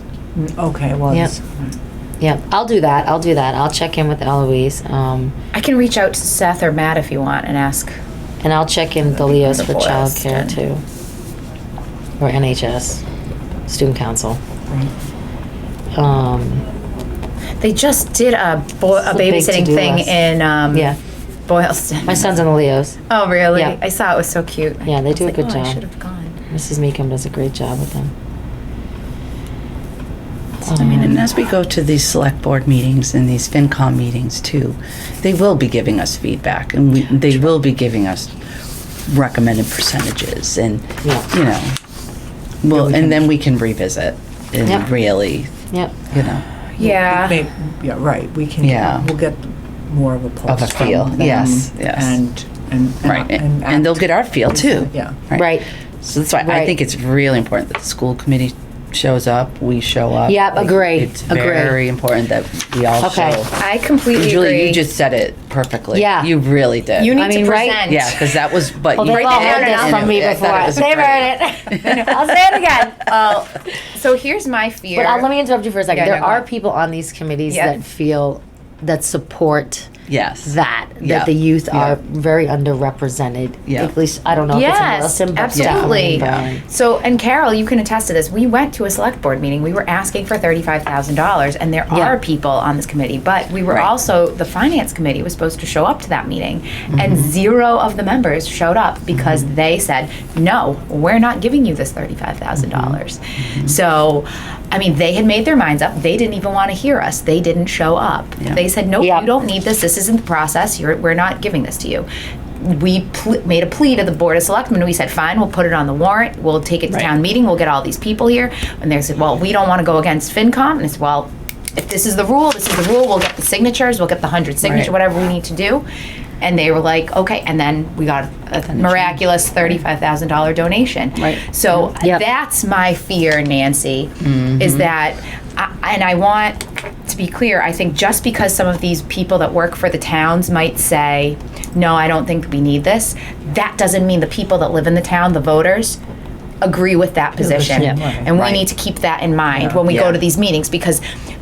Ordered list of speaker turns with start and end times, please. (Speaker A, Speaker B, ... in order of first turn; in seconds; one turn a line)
Speaker A: 0.3-1.7
Speaker B: 2.2-5.3
Speaker C: 5.5-8.0
Speaker B: 8.4-10.8
Speaker C: 9.1-10.6
Speaker B: 12.2-13.0
Speaker B: 13.7-14.4
Speaker B: 15.9-16.6
Speaker C: 17.6-21.0
Speaker B: 18.9-20.2
Speaker B: 20.7-21.0
Speaker C: 21.5-22.4
Speaker B: 22.1-23.0
Speaker C: 23.1-26.4
Speaker B: 24.9-25.8
Speaker B: 26.5-28.1
Speaker B: 30.6-31.3
Speaker D: 30.7-38.3
Speaker D: 39.1-41.8
Speaker D: 42.6-45.5
Speaker A: 42.7-43.3
Speaker B: 45.7-46.0
Speaker D: 46.1-46.5
Speaker C: 46.8-47.4
Speaker A: 46.8-55.2
Speaker D: 48.6-49.1
Speaker D: 50.5-52.2
Speaker D: 53.0-63.6
Speaker B: 55.3-55.7
Speaker B: 56.4-56.7
Speaker B: 60.3-61.8
Speaker B: 63.0-63.4
Speaker C: 63.5-64.8
Speaker D: 64.1-67.2
Speaker B: 65.9-66.3
Speaker C: 67.0-70.7
Speaker B: 67.1-67.9
Speaker D: 67.9-72.4
Speaker B: 68.9-73.0
Speaker C: 71.8-75.3
Speaker B: 74.9-79.9
Speaker C: 75.9-76.5
Speaker C: 77.5-77.8
Speaker D: 80.1-82.0
Speaker B: 80.5-86.6
Speaker D: 83.7-83.9
Speaker C: 84.5-112.1
Speaker D: 85.5-86.5
Speaker B: 91.9-92.2
Speaker D: 96.9-97.2
Speaker D: 102.6-103.8
Speaker B: 109.0-109.3
Speaker C: 112.6-125.8
Speaker D: 124.6-124.9
Speaker C: 126.4-146.0
Speaker A: 128.9-129.2
Speaker D: 131.2-131.4
Speaker D: 134.2-134.9
Speaker C: 146.6-151.0
Speaker A: 147.4-148.6
Speaker D: 148.4-148.7
Speaker A: 149.5-150.0
Speaker D: 149.9-150.2